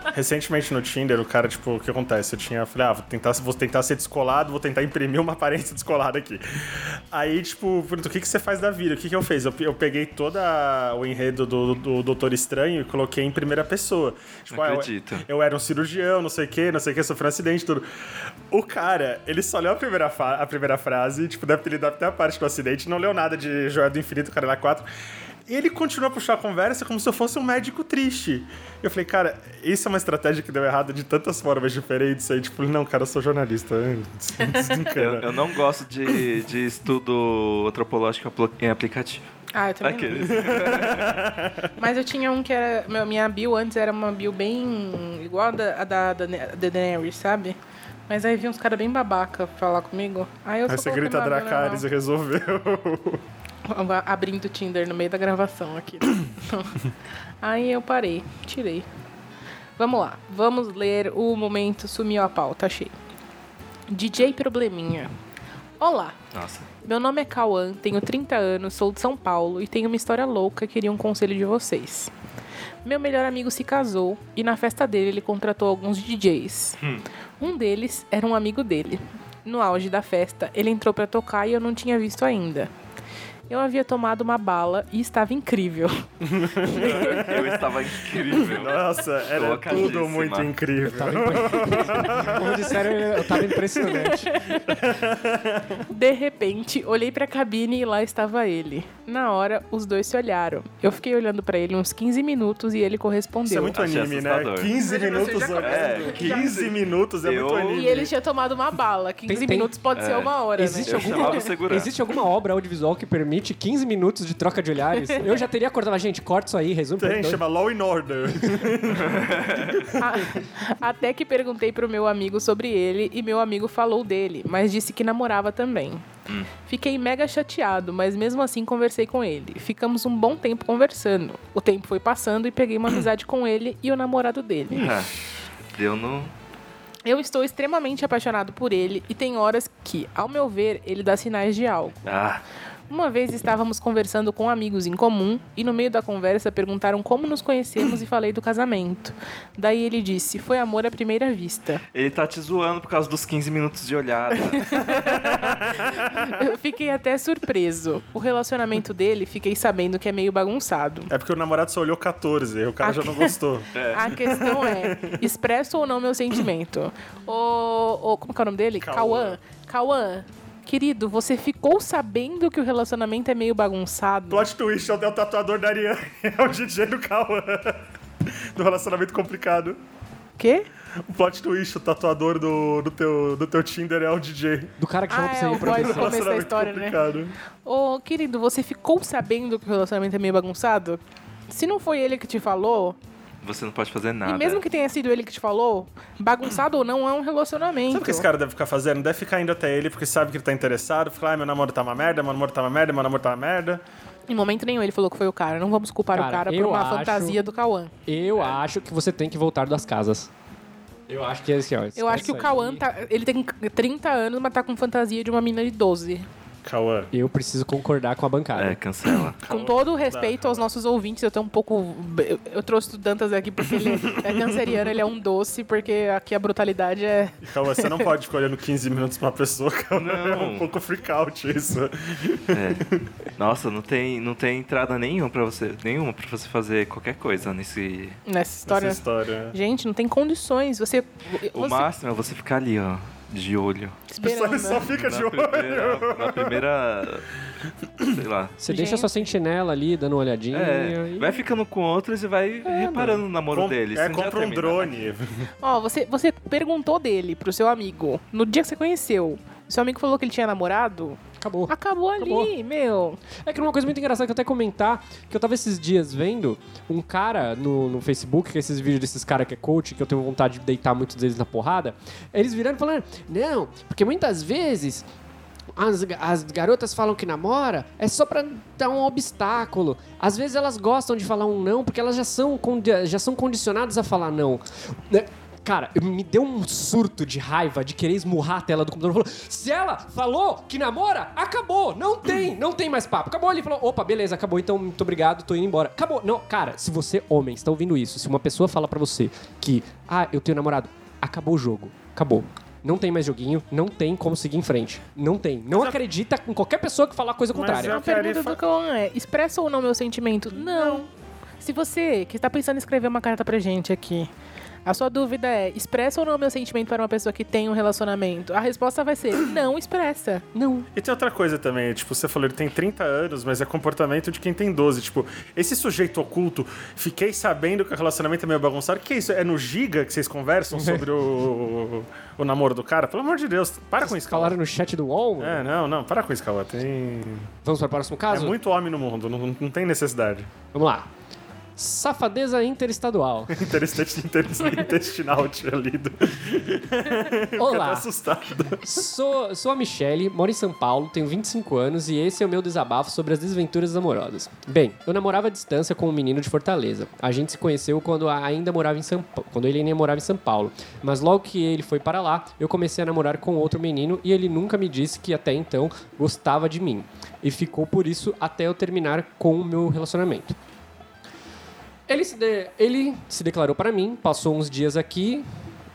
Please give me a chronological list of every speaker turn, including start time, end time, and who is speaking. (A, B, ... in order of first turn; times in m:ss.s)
0:00.1-0:17.9 A
0:14.5-0:15.2 B
0:18.5-0:24.9 A
0:25.5-0:35.4 A
0:34.4-0:34.8 C
0:34.9-0:39.2 B
0:39.6-0:40.5 C
0:39.8-0:41.2 B
0:40.3-0:41.7 A
0:41.8-0:51.8 C
0:50.7-0:53.2 A
0:53.7-0:56.9 C
0:57.4-0:58.9 C
0:59.8-1:02.9 C
1:03.9-1:05.1 C
1:05.8-1:06.2 C
1:06.3-1:06.7 B
1:06.8-1:12.1 C
1:12.8-1:16.8 C
1:17.4-1:22.7 C
1:23.5-1:26.0 C
1:26.2-1:32.4 A
1:26.6-1:27.6 C
1:26.7-1:30.5 B
1:30.8-1:34.4 D
1:32.4-1:34.7 C
1:34.7-1:35.8 A
1:35.9-1:43.8 C
1:43.4-1:48.1 A
1:43.7-1:44.8 B
1:44.8-1:46.6 C
1:45.6-1:48.1 B
1:47.7-1:51.5 C
1:49.3-1:49.7 D
1:49.9-1:51.9 B
1:50.6-1:57.4 D
1:57.0-2:00.3 A
1:59.0-1:59.9 B
2:00.0-2:06.0 C
2:06.7-2:14.9 C
2:14.7-2:16.3 B
2:17.0-2:22.1 C
2:22.1-2:22.4 B
2:22.9-2:31.8 C
2:31.9-2:35.4 B
2:34.5-2:35.5 C
2:35.0-2:36.4 A
2:36.0-2:41.1 C
2:41.1-2:43.7 A
2:42.8-2:43.3 C
2:43.7-2:44.2 B
2:43.9-2:54.5 C
2:44.2-2:45.2 A
2:48.8-2:49.4 A
2:54.3-2:59.8 A
3:00.4-3:00.7 C
3:01.0-3:04.8 A
3:04.8-3:06.2 D
3:05.1-3:07.0 C
3:05.6-3:07.4 A
3:07.6-3:13.0 C
3:13.4-3:14.6 B
3:14.2-3:18.3 C
3:17.9-3:23.8 A
3:24.3-3:27.9 C
3:26.1-3:27.4 D
3:28.1-3:30.3 D
3:31.1-3:32.8 D
3:32.0-3:36.3 C
3:36.6-3:37.1 A
3:37.1-3:38.8 D
3:38.6-3:39.4 B
3:39.4-3:40.7 A
3:39.5-3:48.0 C
3:43.8-3:44.6 A
3:47.4-3:53.0 A
3:49.9-3:50.7 B
3:52.5-3:58.2 B
3:58.3-4:01.9 C
3:58.7-3:59.6 A
4:01.5-4:04.0 B
4:04.1-4:04.9 C
4:04.2-4:06.6 A
4:04.9-4:07.3 B
4:08.0-4:08.6 B
4:08.6-4:11.4 D
4:08.7-4:09.2 C
4:10.5-4:14.9 B
4:12.7-4:13.2 D
4:13.5-4:15.5 A
4:15.6-4:23.2 C
4:21.4-4:22.5 D
4:23.4-4:35.1 D
4:35.8-5:08.0 D
5:05.7-5:06.0 A
5:07.5-5:08.6 A
5:07.8-5:11.1 C
5:10.6-5:11.0 A
5:11.6-5:14.3 C
5:14.8-5:20.6 C
5:20.6-5:20.9 D
5:20.9-5:34.6 A
5:30.7-5:31.1 D
5:34.0-5:35.6 D
5:35.4-5:37.5 A
5:37.6-5:38.6 D
5:38.3-5:40.5 A
5:40.7-5:41.1 D
5:41.8-5:43.7 D
5:43.5-5:49.0 A
5:47.6-5:48.1 D
5:48.8-6:10.6 D
6:12.1-6:15.5 D